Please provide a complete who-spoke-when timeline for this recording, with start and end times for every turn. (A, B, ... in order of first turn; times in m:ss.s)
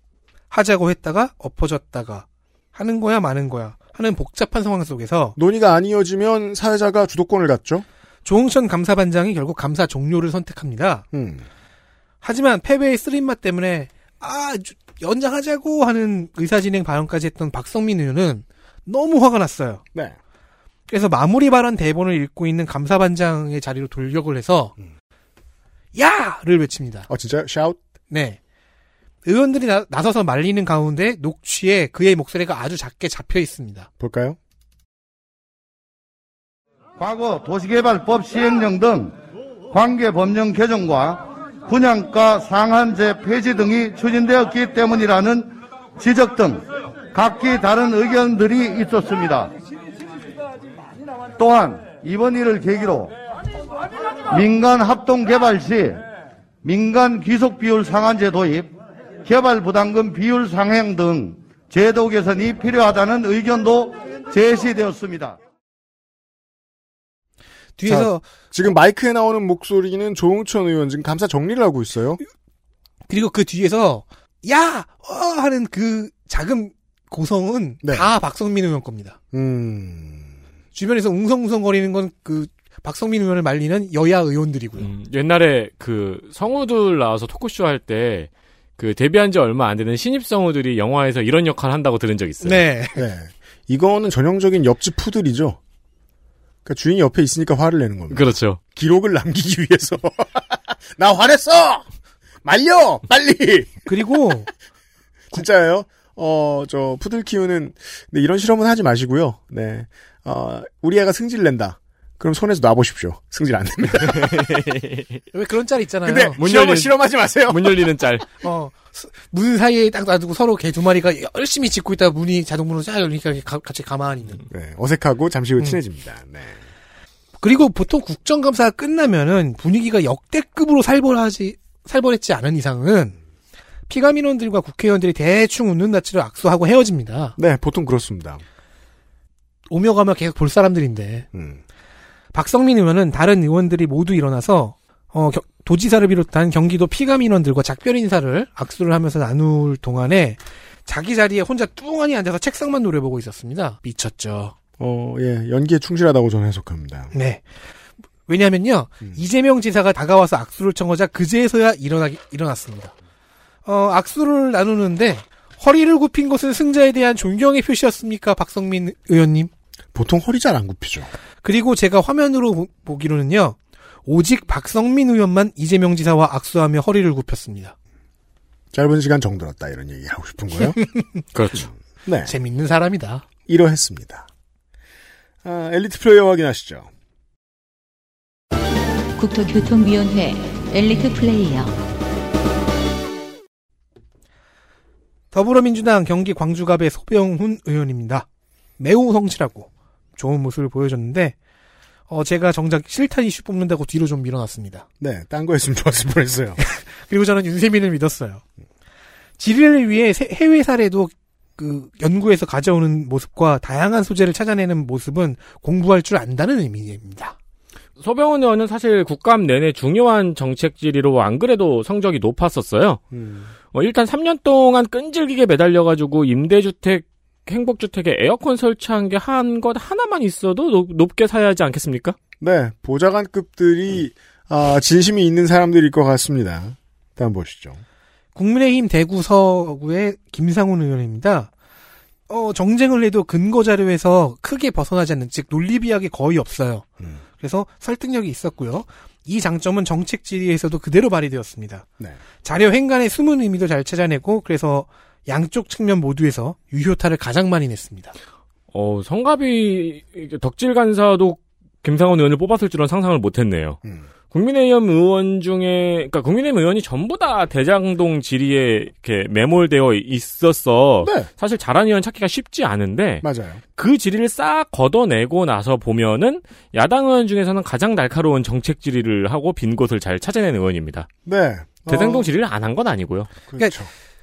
0:00.5-0:05.4 A
0:05.4-0:07.8 B
0:08.2-0:11.0 A
0:11.1-0:11.4 B
0:12.2-0:19.8 A
0:20.9-0:24.7 A
0:25.9-0:27.1 A
0:27.1-0:27.8 B
0:28.1-0:28.4 A
0:29.2-0:33.9 A
0:34.0-0:34.4 B
0:37.0-0:39.2 C
0:39.7-0:49.5 C
0:51.4-0:53.1 C
0:54.3-0:56.0 C
0:56.6-0:58.7 C
0:59.2-1:05.4 C
1:07.8-1:08.2 A
1:07.8-1:12.2 B
1:13.1-1:19.2 A
1:17.8-1:18.1 B
1:19.3-1:20.3 B
1:20.7-1:24.9 A
1:24.8-1:32.7 D
1:32.4-1:33.0 A
1:33.0-1:35.6 B
1:36.6-1:41.8 B
1:38.1-1:38.6 D
1:42.4-1:43.9 B
1:43.9-1:44.5 A
1:45.3-1:54.5 B
1:54.2-1:55.2 D
1:55.3-1:56.4 A
1:56.0-1:57.9 B
1:56.4-1:58.2 D
1:58.4-2:04.4 A
2:04.5-2:06.6 B
2:07.4-2:13.2 A
2:13.9-2:17.4 A
2:17.4-2:18.4 B
2:19.7-2:21.3 A
2:21.3-2:21.6 B
2:22.3-2:34.5 A
2:34.8-2:37.1 B
2:37.1-2:37.4 A
2:38.3-2:42.9 A
2:43.6-2:49.5 A
2:49.9-2:51.1 B
2:51.4-2:57.7 A
2:58.7-3:00.8 B
3:00.6-3:01.0 A
3:01.3-3:01.7 D
3:02.0-3:02.3 B
3:02.2-3:03.2 A
3:03.5-3:04.2 B
3:05.4-3:06.9 B
3:09.2-3:11.8 E
3:15.3-3:18.2 A
3:18.8-3:21.3 A
3:22.1-3:24.8 A
3:25.0-3:26.6 B
3:26.6-3:28.4 A
3:29.4-3:37.3 A
3:38.0-3:43.0 D
3:43.1-3:43.5 B
3:43.7-3:52.2 D
3:52.4-3:57.8 B
3:58.3-4:01.5 A
4:02.3-4:06.8 A
4:07.4-4:11.8 A
4:12.4-4:18.1 A
4:18.7-4:23.8 D
4:24.3-4:33.2 D
4:31.0-4:31.3 B
4:33.2-4:33.6 B
4:33.8-4:41.1 D
4:41.2-4:42.2 B
4:41.9-4:43.3 D
4:43.5-4:43.9 B